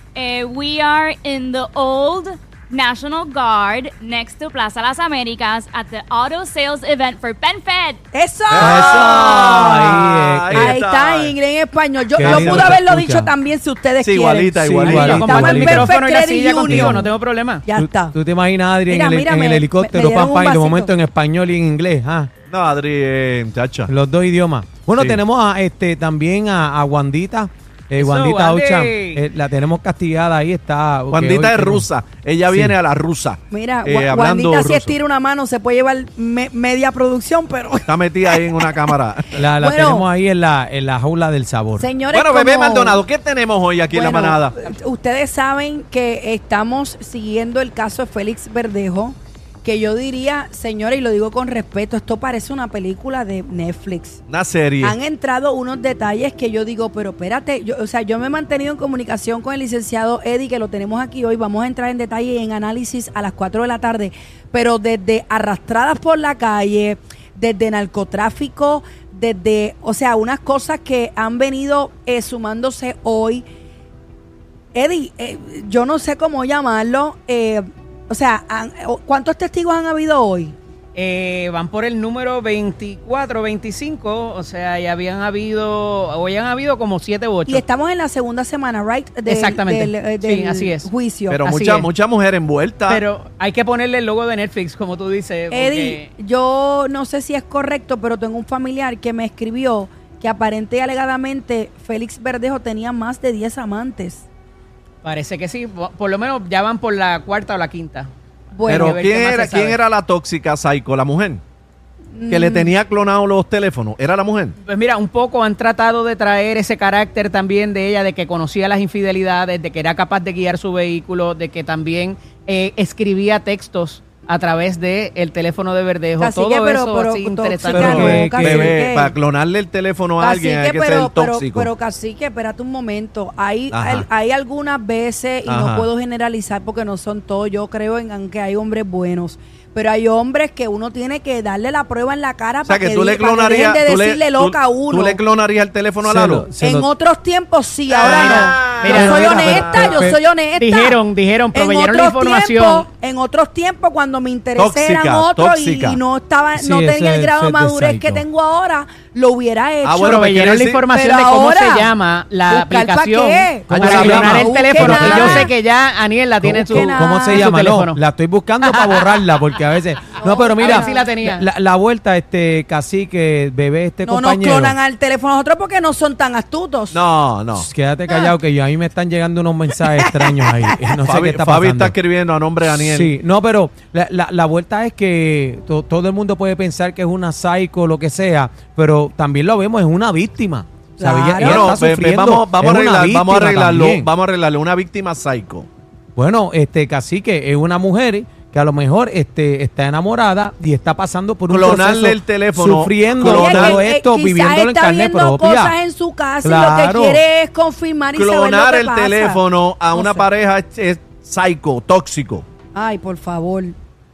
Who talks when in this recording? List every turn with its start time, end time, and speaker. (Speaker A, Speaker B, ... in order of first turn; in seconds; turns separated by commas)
Speaker A: 0.1-8.0, Speaker B: 8.1-10.0, Speaker C: 8.5-11.3, Speaker D: 8.6-10.8, Speaker B: 10.5-17.1, Speaker D: 12.2-13.3, Speaker C: 12.2-12.8, Speaker C: 14.0-15.1, Speaker D: 14.7-15.9, Speaker E: 14.9-17.6, Speaker D: 16.6-17.1, Speaker B: 17.6-18.1, Speaker D: 17.7-22.3, Speaker B: 18.9-20.9, Speaker C: 22.5-23.9, Speaker D: 23.9-31.9, Speaker E: 27.9-29.2, Speaker C: 31.1-34.9, Speaker D: 32.5-32.8, Speaker B: 33.5-38.9, Speaker C: 37.9-39.4, Speaker D: 39.3-41.9, Speaker B: 39.6-40.1, Speaker B: 41.8-43.0, Speaker C: 42.1-44.5, Speaker B: 43.9-54.2, Speaker C: 54.3-55.0, Speaker B: 54.8-73.5, Speaker B: 74.7-80.5, Speaker E: 80.9-87.6, Speaker B: 87.5-91.4, Speaker E: 89.2-90.9, Speaker C: 91.3-93.0, Speaker E: 91.4-91.9, Speaker E: 92.9-96.1, Speaker B: 95.5-104.2, Speaker E: 105.0-108.1, Speaker B: 108.5-109.0, Speaker E: 108.6-109.8, Speaker C: 108.7-111.4, Speaker B: 112.1-112.7, Speaker C: 112.3-114.5, Speaker E: 114.6-128.0, Speaker B: 126.2-129.1, Speaker D: 127.7-128.7, Speaker C: 127.7-131.7, Speaker B: 130.2-145.2, Speaker C: 133.7-134.1, Speaker C: 135.4-135.9, Speaker C: 142.6-146.5, Speaker D: 146.0-146.9, Speaker B: 146.6-151.0, Speaker C: 147.9-150.0, Speaker E: 148.0-149.4, Speaker D: 148.9-150.2, Speaker E: 150.6-152.9, Speaker B: 151.5-160.2, Speaker C: 154.6-156.0, Speaker D: 156.5-158.2, Speaker C: 159.8-160.8, Speaker E: 159.9-168.0, Speaker B: 160.9-161.9, Speaker B: 162.5-165.5, Speaker C: 163.7-164.4, Speaker D: 163.7-165.5, Speaker D: 166.4-174.8, Speaker B: 166.7-167.5, Speaker E: 168.6-169.4, Speaker B: 170.2-171.1, Speaker E: 170.6-171.4, Speaker B: 174.0-177.0, Speaker C: 176.9-177.7, Speaker D: 177.5-181.9, Speaker B: 179.9-180.8, Speaker C: 181.0-183.1, Speaker D: 182.7-194.1, Speaker B: 191.0-191.8, Speaker C: 191.4-195.7, Speaker D: 196.2-205.8, Speaker C: 201.5-203.8, Speaker B: 203.2-209.4, Speaker D: 206.4-207.2, Speaker C: 208.1-212.4, Speaker B: 209.9-210.2, Speaker B: 212.7-213.7